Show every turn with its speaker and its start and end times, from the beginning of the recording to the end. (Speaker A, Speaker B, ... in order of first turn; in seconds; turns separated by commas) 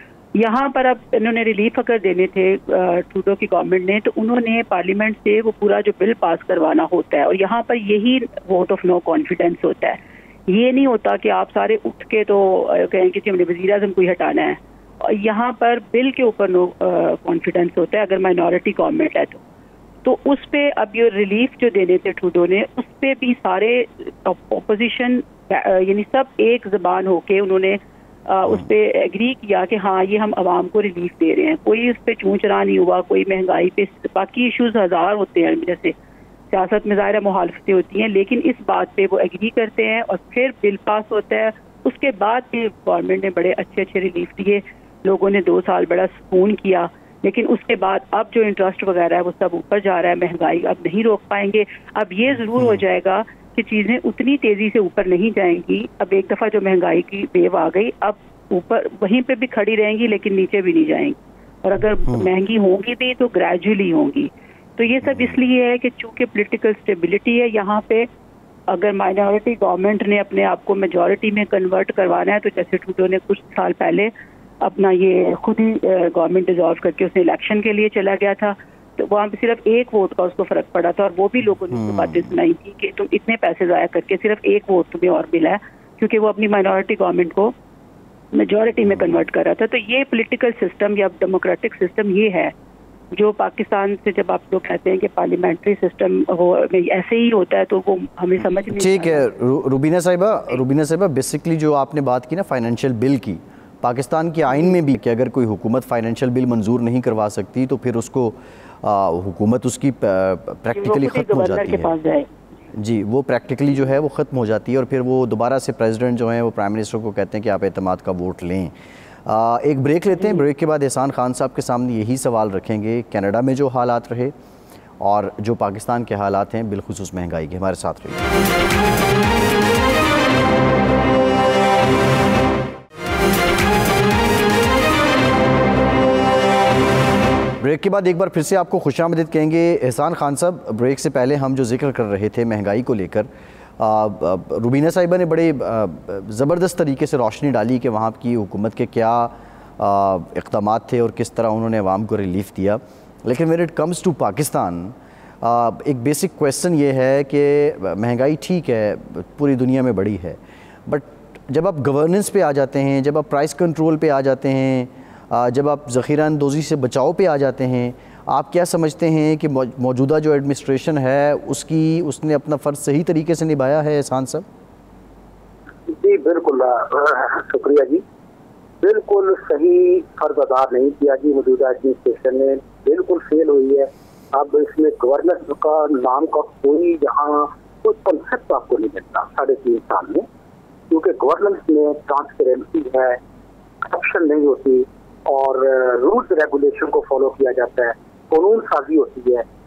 Speaker A: 0.3-19.4, Speaker A: 20.0-35.9, Speaker A: 36.5-68.1, Speaker B: 65.0-65.3, Speaker A: 68.7-87.5, Speaker B: 81.7-82.3, Speaker A: 88.3-92.5, Speaker A: 93.1-99.3, Speaker B: 98.7-111.9, Speaker A: 110.7-112.5, Speaker B: 112.7-118.7, Speaker B: 119.2-124.3, Speaker B: 125.0-128.3, Speaker B: 137.6-143.3, Speaker B: 143.8-174.4, Speaker C: 175.9-178.0, Speaker C: 178.8-190.3, Speaker C: 190.9-193.2, Speaker C: 193.8-199.4